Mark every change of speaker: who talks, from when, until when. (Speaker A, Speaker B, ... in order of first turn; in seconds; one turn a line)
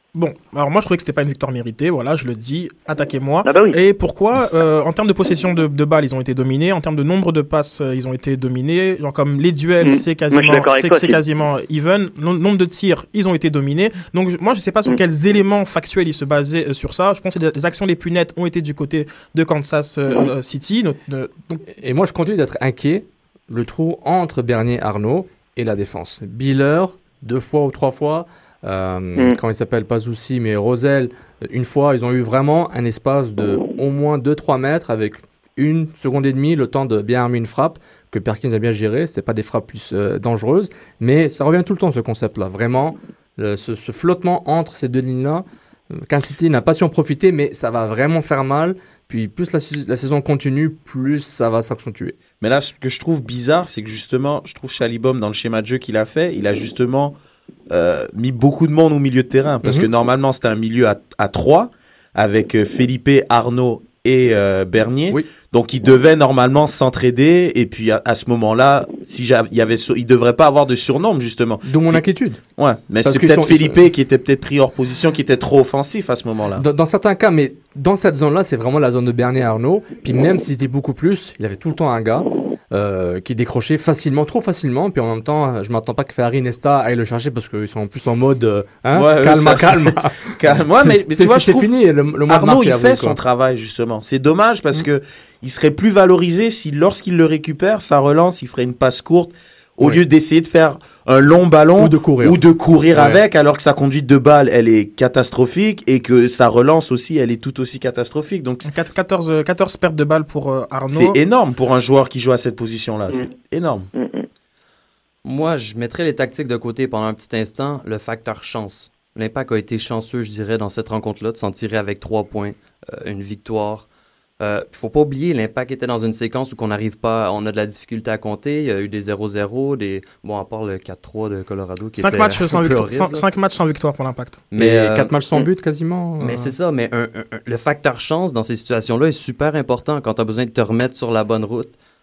Speaker A: 0.1-21.6
Speaker B: 3.4-3.8
Speaker B: 9.8-11.2
Speaker C: 21.7-52.1
Speaker D: 52.4-57.1
Speaker D: 57.7-72.0
Speaker C: 59.6-59.9
Speaker C: 71.6-72.4
Speaker D: 72.5-76.6
Speaker C: 73.0-73.8
Speaker C: 76.5-93.2
Speaker D: 88.9-91.8
Speaker D: 92.3-108.7
Speaker C: 101.8-102.4
Speaker C: 102.9-103.2
Speaker A: 108.6-111.2
Speaker D: 110.9-113.9
Speaker B: 113.9-114.2
Speaker E: 115.2-123.9
Speaker E: 124.4-133.2
Speaker A: 132.0-134.4
Speaker E: 134.5-135.5
Speaker C: 134.6-136.5
Speaker E: 136.2-141.7